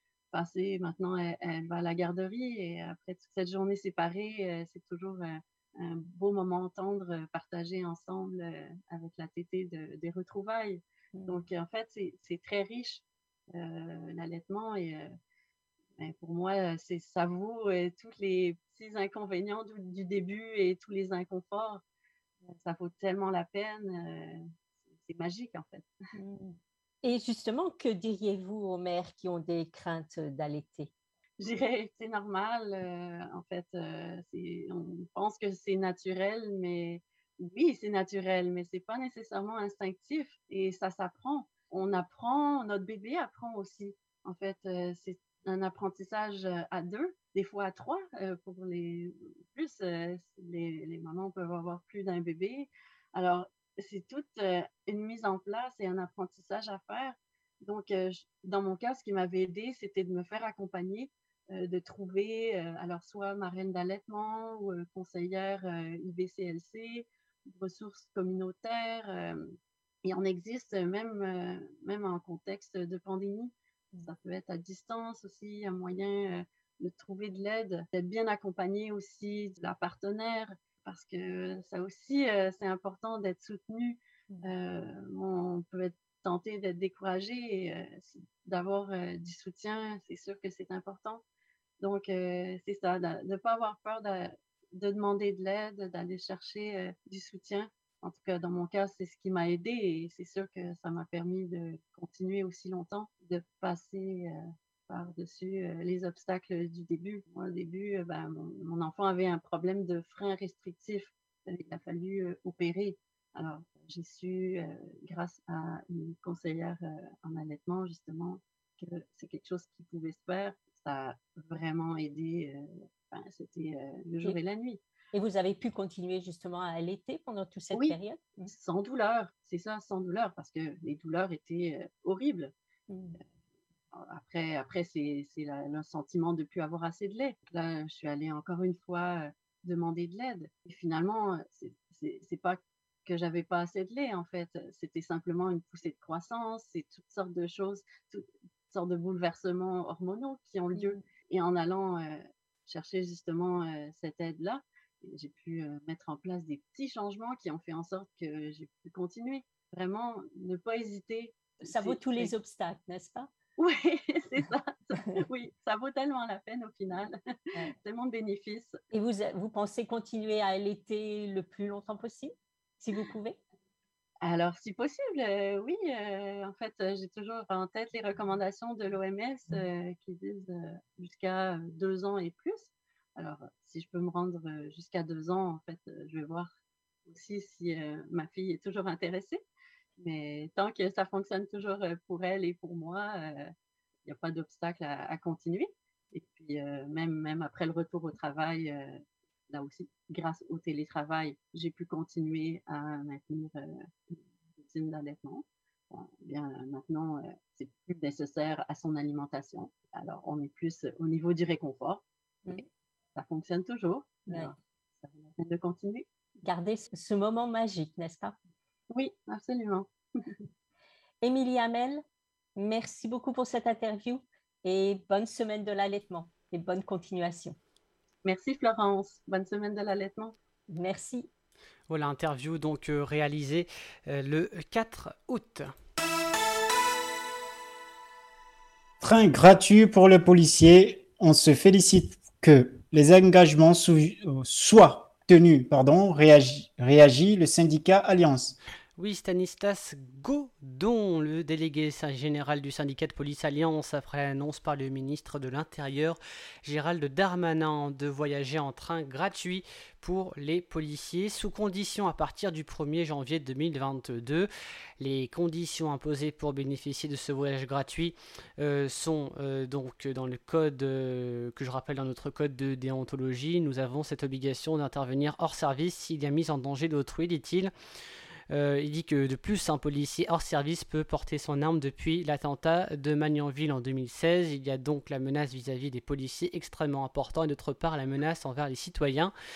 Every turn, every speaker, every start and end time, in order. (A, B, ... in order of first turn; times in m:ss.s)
0:00.3-0:15.1 A
0:11.1-0:11.4 B
0:16.0-0:21.8 A
0:22.5-0:25.9 A
0:26.2-0:30.9 B
0:31.4-1:09.5 A
1:10.0-1:31.2 A
1:31.8-2:04.8 A
2:05.1-2:08.5 B
2:07.7-2:08.0 A
2:08.5-2:12.5 A
2:12.9-2:13.2 B
2:13.9-2:42.3 A
2:30.7-2:31.0 B
2:41.6-2:43.3 B
2:43.6-2:47.2 A
2:47.8-2:48.8 A
2:48.9-2:53.4 B
2:54.2-3:06.5 A
3:07.1-3:09.4 A
3:10.0-3:13.5 A
3:14.0-3:32.0 A
3:33.2-3:36.1 A
3:36.4-3:38.4 B
3:38.9-3:39.9 A
3:41.2-3:42.0 B
3:42.6-3:47.6 B
3:48.2-3:50.3 A
3:50.7-3:51.3 B
3:51.9-3:55.7 C
3:59.0-4:08.6 D
4:09.0-4:24.5 C
4:25.0-4:37.7 C
4:38.5-4:49.3 C